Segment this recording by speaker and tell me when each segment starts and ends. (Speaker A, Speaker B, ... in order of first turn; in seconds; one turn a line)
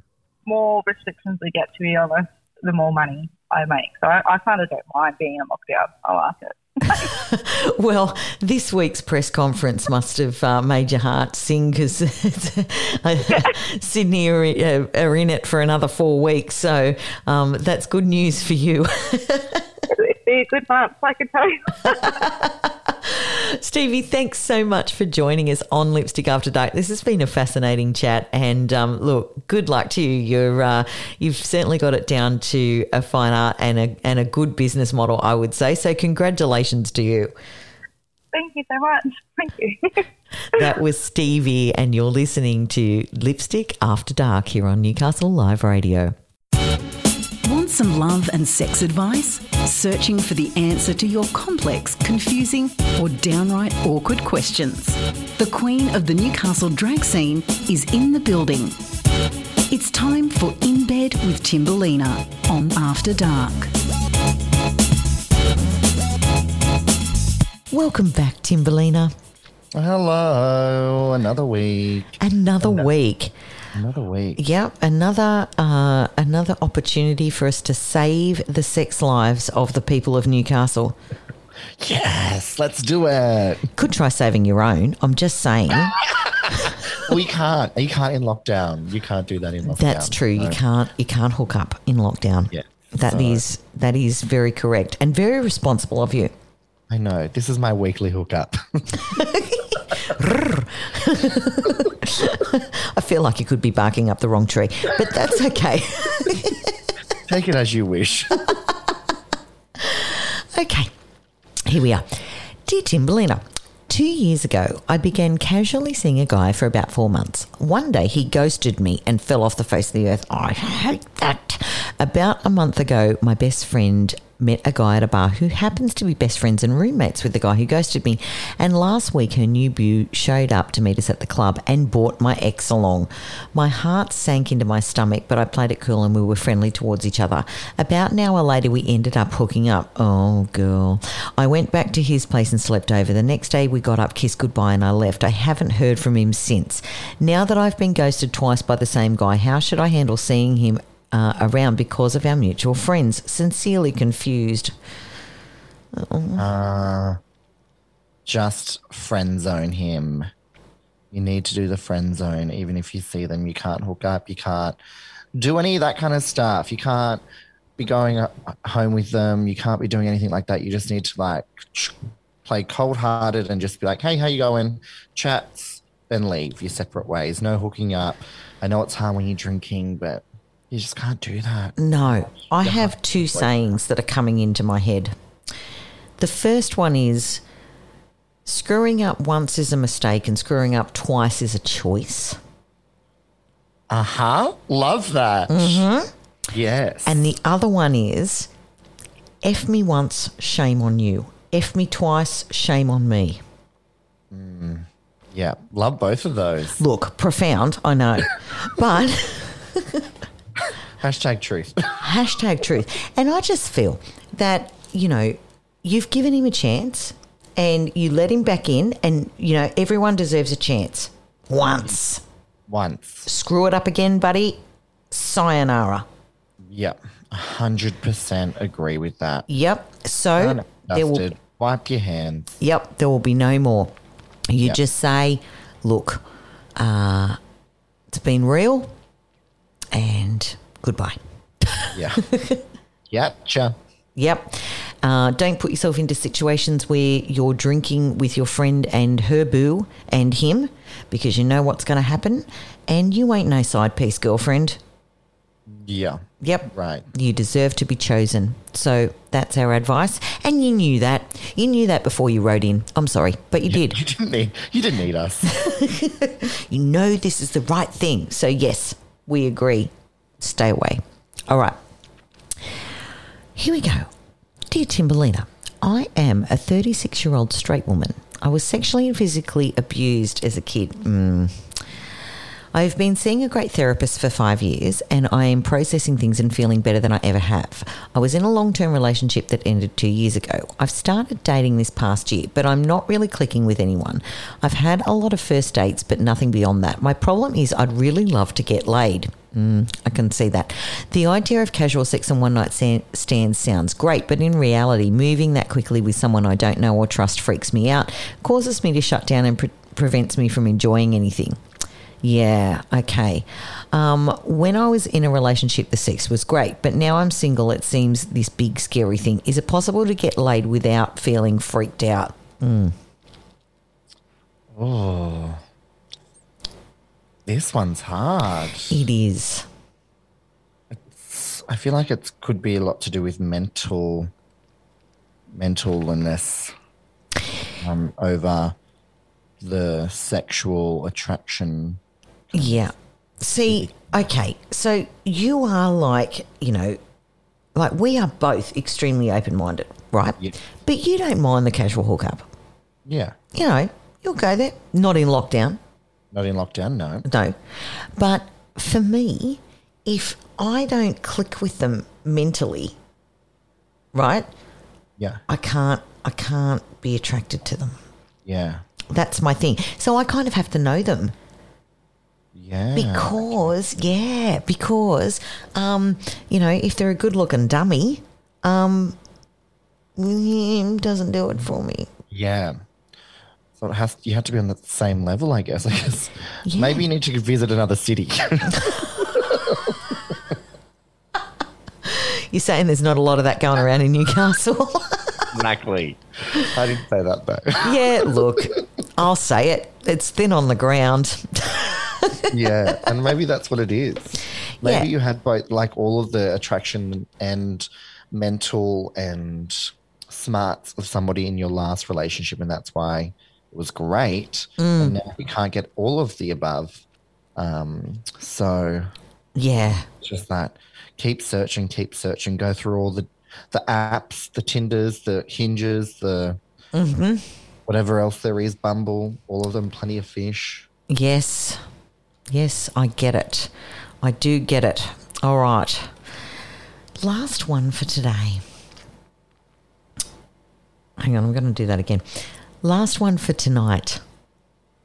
Speaker A: 0.5-7.2
Speaker B: 6.9-19.7
Speaker A: 19.9-22.1
Speaker B: 21.9-37.3
Speaker A: 38.3-40.7
Speaker B: 40.5-46.1
Speaker C: 47.4-58.8
Speaker C: 59.7-63.7
Speaker B: 67.7-69.1
Speaker D: 69.8-72.9
Speaker B: 72.2-73.3
Speaker D: 73.7-74.4
Speaker B: 74.4-81.0
Speaker D: 81.8-83.7
Speaker B: 83.8-86.0
Speaker D: 86.3-90.6
Speaker B: 86.5-86.8
Speaker B: 89.7-96.3
Speaker D: 92.5-93.4
Speaker D: 96.9-99.2
Speaker B: 99.0-106.8
Speaker D: 107.3-108.6
Speaker B: 109.8-110.9
Speaker B: 111.6-154.7
Speaker B: 155.9-156.5
Speaker D: 156.4-157.2
Speaker D: 158.3-160.3
Speaker D: 161.1-164.8
Speaker D: 165.4-167.2
Speaker D: 167.8-181.8
Speaker B: 181.8-185.2
Speaker D: 182.5-183.5
Speaker B: 186.2-187.4
Speaker B: 188.5-192.4
Speaker D: 193.9-195.8
Speaker B: 195.5-196.1
Speaker D: 196.5-197.3
Speaker B: 197.1-198.5
Speaker B: 199.4-203.4
Speaker D: 204.3-206.8
Speaker B: 206.8-210.1
Speaker D: 211.0-212.0
Speaker B: 212.0-222.2
Speaker D: 222.7-223.3
Speaker B: 223.3-224.6
Speaker B: 225.1-226.1
Speaker D: 226.7-229.4
Speaker B: 229.5-231.3
Speaker D: 230.4-232.6
Speaker B: 232.6-233.9
Speaker B: 234.5-236.2
Speaker B: 236.8-237.4
Speaker B: 238.1-238.9
Speaker B: 239.9-242.6
Speaker D: 241.9-242.3
Speaker D: 243.1-243.8
Speaker B: 244.2-254.8
Speaker D: 255.7-257.1
Speaker B: 256.4-264.0
Speaker D: 263.7-265.7
Speaker B: 265.5-271.8
Speaker B: 273.6-274.1
Speaker B: 274.7-282.0
Speaker B: 282.7-311.6
Speaker B: 312.2-322.9
Speaker D: 324.7-325.6
Speaker D: 327.5-329.0
Speaker B: 328.9-329.7
Speaker D: 330.9-334.3
Speaker D: 335.5-336.7
Speaker D: 337.8-338.8
Speaker D: 339.6-342.8
Speaker B: 342.5-347.0
Speaker D: 343.7-344.1
Speaker B: 347.8-352.4
Speaker D: 353.1-353.4
Speaker B: 353.5-355.8
Speaker D: 356.3-357.3
Speaker B: 357.3-362.9
Speaker B: 364.1-364.5
Speaker B: 365.5-368.0
Speaker D: 368.5-368.9
Speaker B: 369.1-371.3
Speaker D: 372.6-373.6
Speaker B: 372.9-379.2
Speaker B: 380.2-382.1
Speaker D: 382.3-382.8
Speaker D: 383.8-390.3
Speaker B: 386.6-387.1
Speaker B: 392.0-395.5
Speaker D: 395.5-397.9
Speaker B: 397.8-403.0
Speaker D: 402.5-417.0
Speaker B: 404.8-405.1
Speaker B: 414.8-415.2
Speaker D: 417.6-419.1
Speaker B: 419.6-420.1
Speaker D: 420.2-426.6
Speaker B: 426.9-427.4
Speaker D: 427.9-430.9
Speaker B: 431.1-431.8
Speaker B: 432.5-433.7
Speaker B: 434.2-436.1
Speaker B: 437.2-438.6
Speaker B: 441.2-444.2